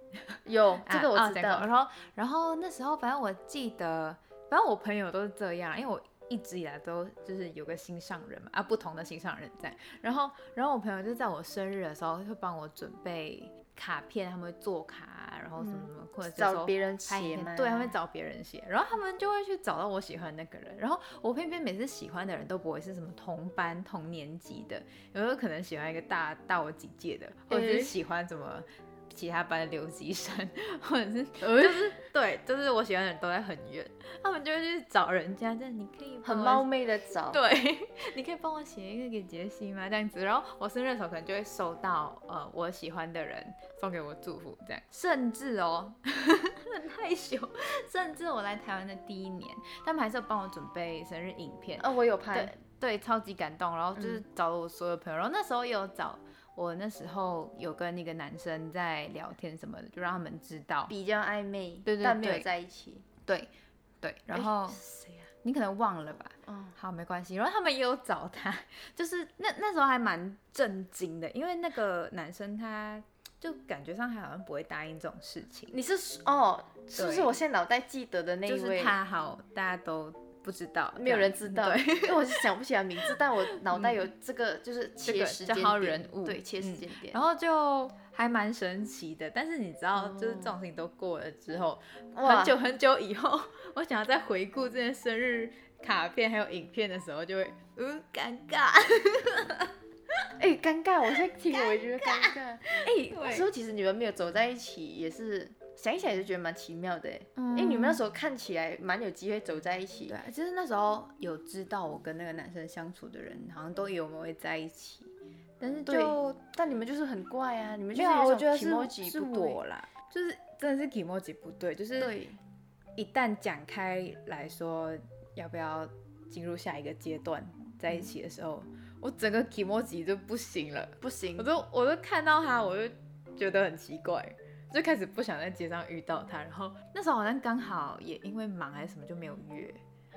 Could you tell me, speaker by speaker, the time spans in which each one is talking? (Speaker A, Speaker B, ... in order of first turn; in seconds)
Speaker A: 0.3-36.7, 37.3-60.9, 61.9-62.5, 63.3-64.8, 65.4-75.7, 77.0-77.4, 78.5-82.4, 83.7-84.0, 85.0-99.7, 101.5-103.5, 107.4-108.0, 110.1-116.4, 117.9-122.1, 123.0-139.8
Speaker B: 0.5-1.7, 15.6-18.0, 27.5-27.9, 31.4-31.9, 36.2-37.4, 51.8-52.5, 54.0-54.2, 60.9-63.0, 64.3-65.3, 66.5-66.8, 75.7-79.0, 81.0-87.2, 90.0-90.5, 92.2-92.6, 100.4-110.2, 115.9-119.6, 122.0-122.4, 131.0-131.5